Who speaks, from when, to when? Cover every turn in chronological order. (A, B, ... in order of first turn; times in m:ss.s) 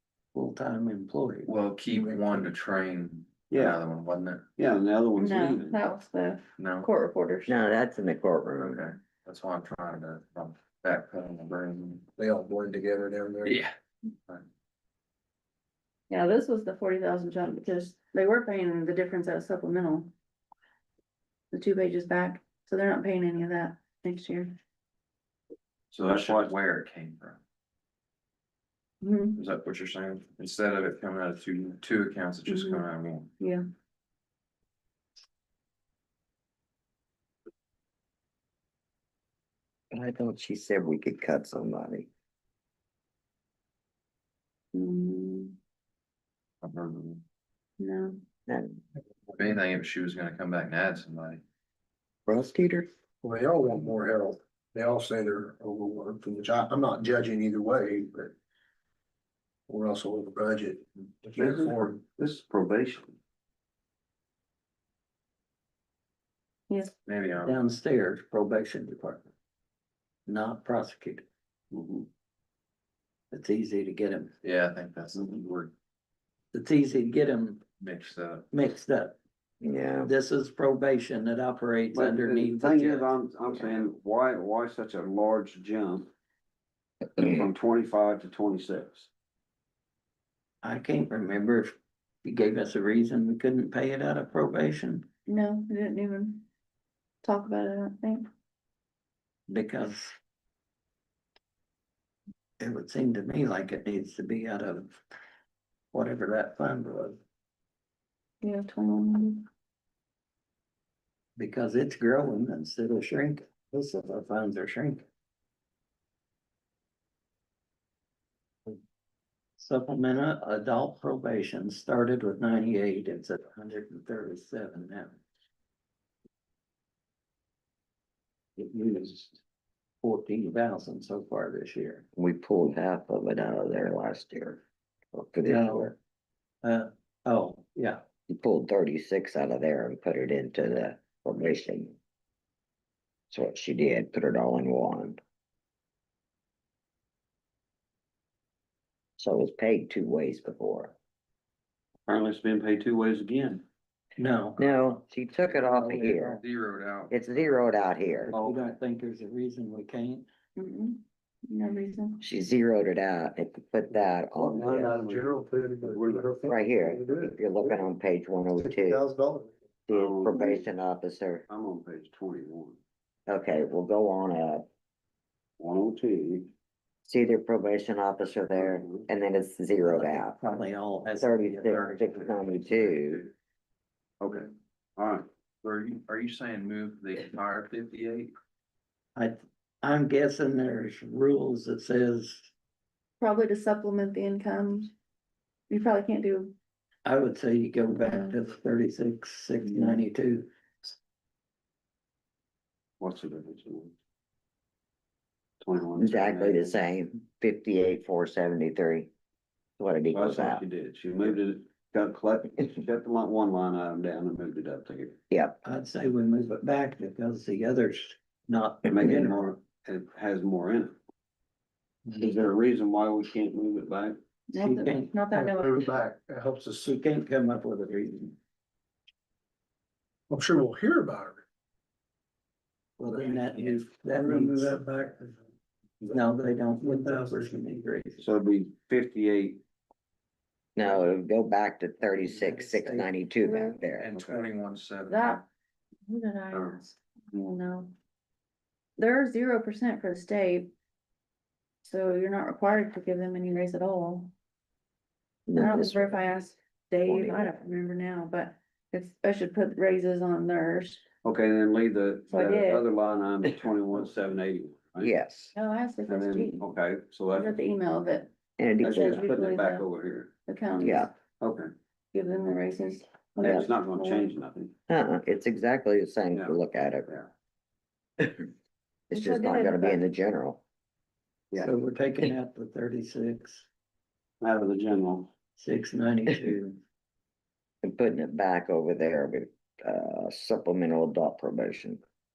0:00.3-0:01.5 A
0:01.4-0:04.4 B
0:01.9-0:02.5 C
0:03.5-0:03.8 D
0:04.6-0:05.8 D
0:05.2-0:07.6 E
0:06.6-0:06.9 B
0:07.5-0:08.9 F
0:08.7-0:12.1 B
0:12.2-0:13.6 C
0:13.4-0:13.7 B
0:16.1-0:20.1 E
0:21.5-0:24.5 E
0:25.9-0:27.4 B
0:26.0-0:26.5 D
0:29.0-0:29.4 E
0:29.4-0:33.3 B
0:32.5-0:32.9 E
0:39.9-0:42.1 F
0:44.7-0:45.6 E
0:46.6-0:47.2 B
0:47.8-0:48.2 E
0:48.5-0:48.8 F
0:49.4-0:51.4 B
0:52.3-0:52.9 F
0:53.2-0:58.3 C
0:59.7-1:02.0 C
1:01.4-1:03.2 D
1:07.0-1:07.6 B
1:07.4-1:09.3 A
1:10.2-1:11.2 A
1:11.7-1:12.1 D
1:13.3-1:14.3 A
1:14.4-1:15.7 B
1:16.5-1:17.6 A
1:17.8-1:18.4 B
1:18.5-1:19.2 A
1:19.6-1:20.1 F
1:20.0-1:23.1 A
1:21.9-1:26.1 D
1:27.2-1:29.1 D
1:30.6-1:35.1 A
1:35.3-1:36.4 E
1:37.2-1:38.2 E
1:39.5-1:40.1 A
1:42.6-1:45.0 A
1:45.9-1:47.2 A
1:48.4-1:49.4 E
1:51.4-1:55.0 A
1:59.6-2:05.2 A
2:08.6-2:09.4 A
2:10.0-2:12.0 A
2:12.2-2:14.6 F
2:15.1-2:15.9 F
2:15.4-2:15.9 A
2:16.6-2:18.0 A
2:18.3-2:22.0 F
2:23.3-2:25.2 F
2:29.2-2:30.9 F
2:32.1-2:33.6 D
2:34.2-2:34.8 A
2:34.6-2:36.4 F
2:35.5-2:36.4 A
2:36.4-2:37.2 B
2:37.1-2:38.3 F
2:38.2-2:40.3 A
2:38.3-2:38.6 D
2:40.6-2:42.2 E
2:42.2-2:45.0 F
2:44.4-2:45.3 D
2:44.5-2:47.6 C
2:45.9-2:46.6 D
2:46.4-2:49.0 F
2:48.6-2:49.5 C
2:49.9-2:51.4 F
2:49.9-2:50.5 D
2:50.3-2:50.6 E
2:51.5-2:52.8 D
2:53.3-2:54.7 F
2:55.6-2:56.5 D
2:57.0-3:00.4 F
2:58.5-2:59.0 D
2:59.8-3:02.2 A
3:01.2-3:03.3 F
3:04.2-3:05.3 D
3:05.6-3:08.3 B
3:09.1-3:12.5 A
3:13.2-3:14.9 E
3:15.7-3:16.5 E
3:17.0-3:20.5 A
3:18.0-3:18.3 E
3:19.6-3:20.0 E
3:23.0-3:23.9 D
3:25.6-3:26.8 D
3:26.0-3:29.1 F
3:29.8-3:30.6 F
3:30.1-3:35.2 D
3:35.3-3:35.6 F
3:35.6-3:39.4 A
3:38.9-3:40.9 D
3:42.2-3:44.2 D
3:44.5-3:45.9 E
3:44.6-3:45.2 A
3:45.3-3:46.9 C
3:46.8-3:48.4 A
3:50.3-3:51.4 C
3:53.0-3:54.8 A
3:53.1-3:55.2 C
3:56.1-3:58.2 A
3:57.0-3:57.3 C
3:58.2-3:59.6 D
4:00.8-4:04.1 F
4:02.2-4:03.1 A
4:03.4-4:03.8 E
4:04.0-4:05.4 B
4:04.1-4:04.4 D
4:05.1-4:05.4 E
4:06.1-4:07.9 E
4:06.5-4:06.8 D
4:09.0-4:10.7 E
4:11.8-4:14.3 E
4:15.5-4:16.3 F
4:15.6-4:21.0 E
4:17.0-4:17.5 F
4:21.2-4:25.1 D
4:22.3-4:22.8 E
4:25.0-4:25.5 F
4:25.5-4:26.6 E
4:26.1-4:27.6 D
4:27.3-4:29.9 E
4:28.6-4:29.2 F
4:28.8-4:30.3 D
4:30.5-4:31.1 E
4:30.8-4:31.1 F
4:31.4-4:31.7 D
4:32.1-4:34.3 E
4:33.4-4:34.7 D
4:34.9-4:37.1 F
4:38.2-4:38.5 F
4:39.1-4:40.6 F
4:39.1-4:40.0 E
4:41.6-4:43.7 A
4:44.4-4:45.3 D
4:45.6-4:46.8 A
4:47.8-4:52.0 F